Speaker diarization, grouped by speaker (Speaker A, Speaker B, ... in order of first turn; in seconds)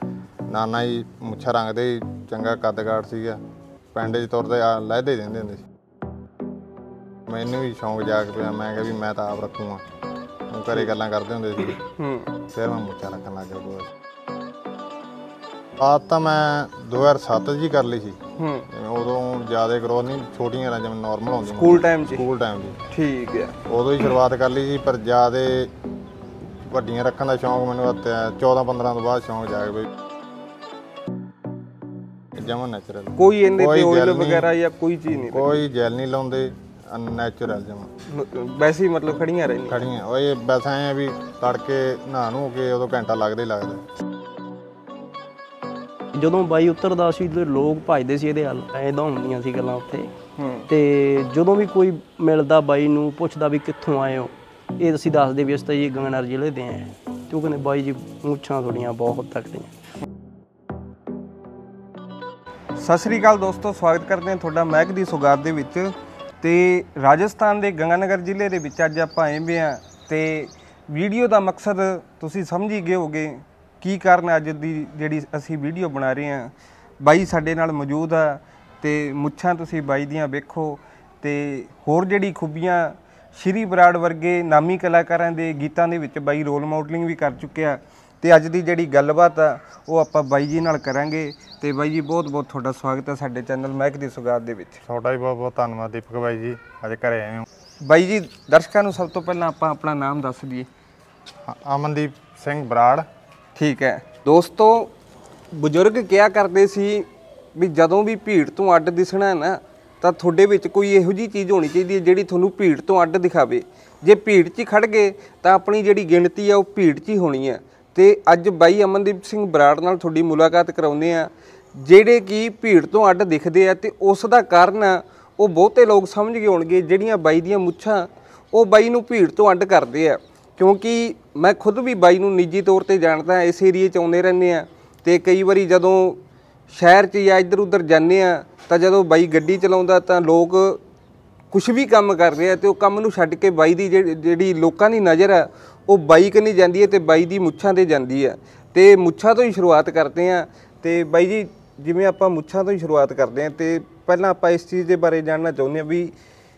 Speaker A: 0.5-3.4, 3.9-5.6, 7.3-9.8, 10.5-11.8, 12.5-13.9, 15.8-18.2, 18.7-22.8, 23.7-25.7, 26.7-29.9, 32.4-34.5, 35.3-37.9, 39.7-43.9, 94.8-97.5, 101.5-103.1
Speaker B: 11.7-12.3, 18.4-18.7, 21.4-22.2, 22.9-23.6, 33.2-35.5, 38.1-39.9, 50.4-50.7, 62.8-94.8, 97.8-100.7, 103.5-104.9, 105.5-140.8, 141.5-156.1
Speaker C: 46.1-50.1, 50.7-59.7